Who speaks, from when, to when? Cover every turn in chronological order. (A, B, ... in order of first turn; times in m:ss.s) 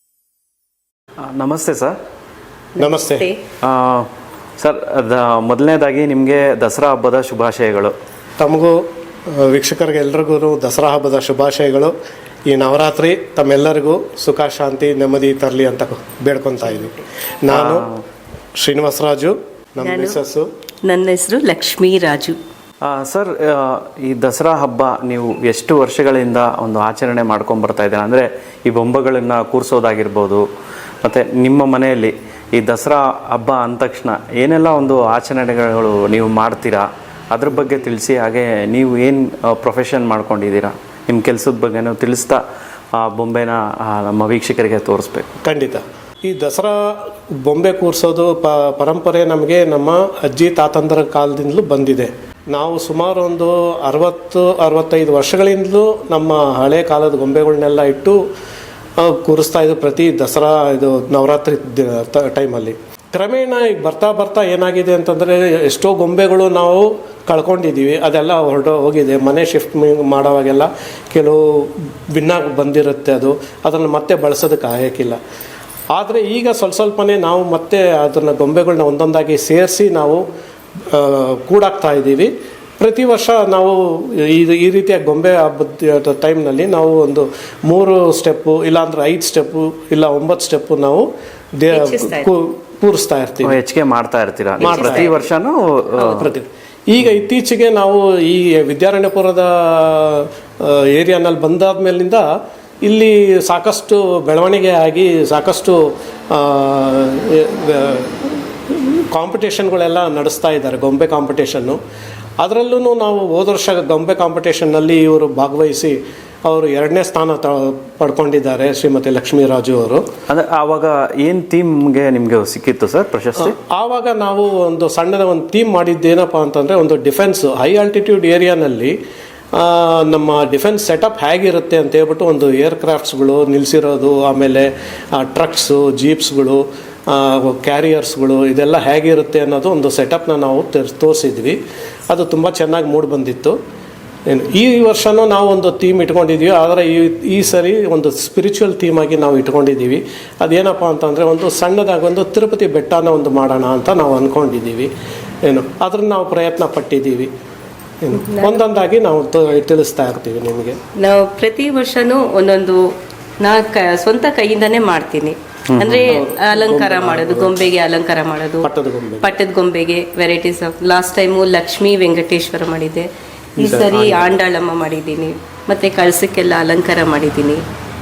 0:01.3-0:02.0 A
0:02.8-0:03.4 B
0:02.8-0:03.3 C
0:03.6-0:04.1 A
0:04.6-0:07.9 A
0:08.4-0:08.7 C
0:09.3-0:11.9 C
0:12.5-0:17.9 C
0:16.7-0:17.0 B
0:17.5-0:18.0 A
0:18.6-0:20.5 C
0:19.8-0:20.2 B
0:20.8-0:22.4 B
0:22.8-0:30.4 A
0:31.0-0:42.4 A
0:43.0-0:45.3 A
0:45.4-0:58.2 C
0:59.0-1:15.2 C
1:15.9-1:20.2 C
1:20.9-1:31.0 C
1:31.6-1:33.6 C
1:31.7-1:32.3 B
1:33.4-1:36.3 A
1:34.6-1:35.1 C
1:34.6-1:35.2 B
1:36.0-1:36.3 B
1:36.1-1:42.2 C
1:42.8-1:51.8 C
1:52.4-2:00.0 C
2:00.3-2:03.6 A
2:03.4-2:08.9 C
2:09.5-2:21.6 C
2:22.1-2:23.6 C
2:24.3-2:34.9 C
2:35.4-2:37.3 C
2:38.0-2:40.8 C
2:38.3-2:38.6 B
2:41.0-2:48.7 B
2:45.7-2:46.2 A
2:46.0-2:47.7 C
2:48.6-2:49.4 C
2:49.2-2:57.6 B
2:53.6-2:54.4 C